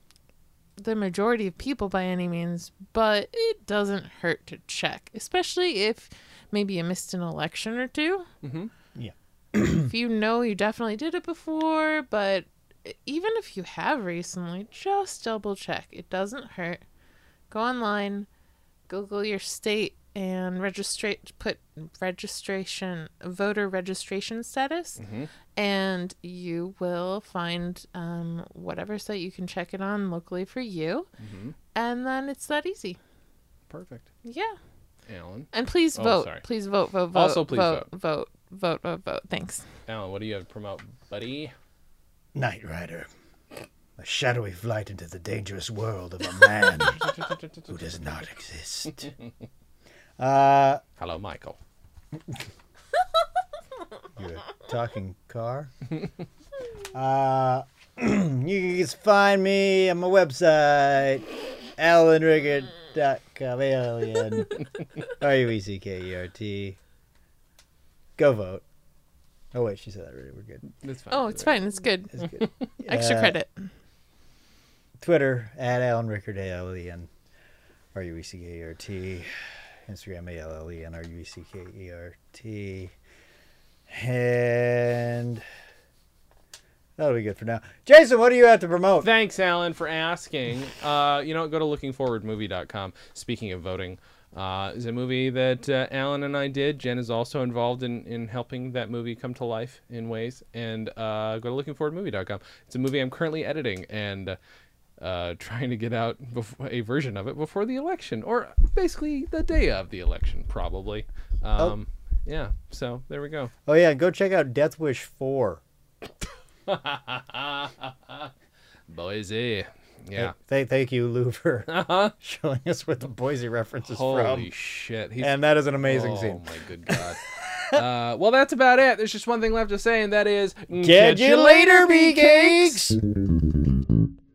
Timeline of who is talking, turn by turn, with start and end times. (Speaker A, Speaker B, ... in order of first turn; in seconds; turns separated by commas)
Speaker A: 0.8-8.3, Speaker B: 8.4-8.7, Speaker C: 8.9-9.9, Speaker A: 9.9-16.8, Speaker A: 17.5-18.3, Speaker A: 18.9-25.0, Speaker B: 25.0-25.3, Speaker A: 25.6-31.1, Speaker B: 31.2-31.6, Speaker A: 31.8-33.0, Speaker B: 33.7-34.1, Speaker A: 34.2-34.6, Speaker B: 35.1-36.4, Speaker A: 35.5-39.7, Speaker B: 37.1-37.9, Speaker B: 39.9-41.5, Speaker C: 42.4-49.1, Speaker B: 47.2-47.6, Speaker C: 50.2-50.8, Speaker B: 51.0-51.6, Speaker C: 54.2-55.7, Speaker C: 56.9-66.8, Speaker C: 68.2-68.6, Speaker C: 69.5-70.6, Speaker B: 70.8-71.6, Speaker A: 71.1-72.3, Speaker C: 72.2-73.4, Speaker A: 72.8-73.7, Speaker C: 75.0-77.1, Speaker C: 77.9-79.3, Speaker C: 79.9-82.9, Speaker C: 83.9-85.5, Speaker C: 87.0-89.1, Speaker B: 89.0-104.4, Speaker B: 105.0-113.5, Speaker C: 113.7-115.6, Speaker B: 116.7-118.3, Speaker B: 118.9-120.3, Speaker C: 120.2-124.5, Speaker B: 121.7-122.1, Speaker B: 123.8-125.3, Speaker C: 125.2-127.8, Speaker B: 125.8-132.8, Speaker C: 130.8-133.0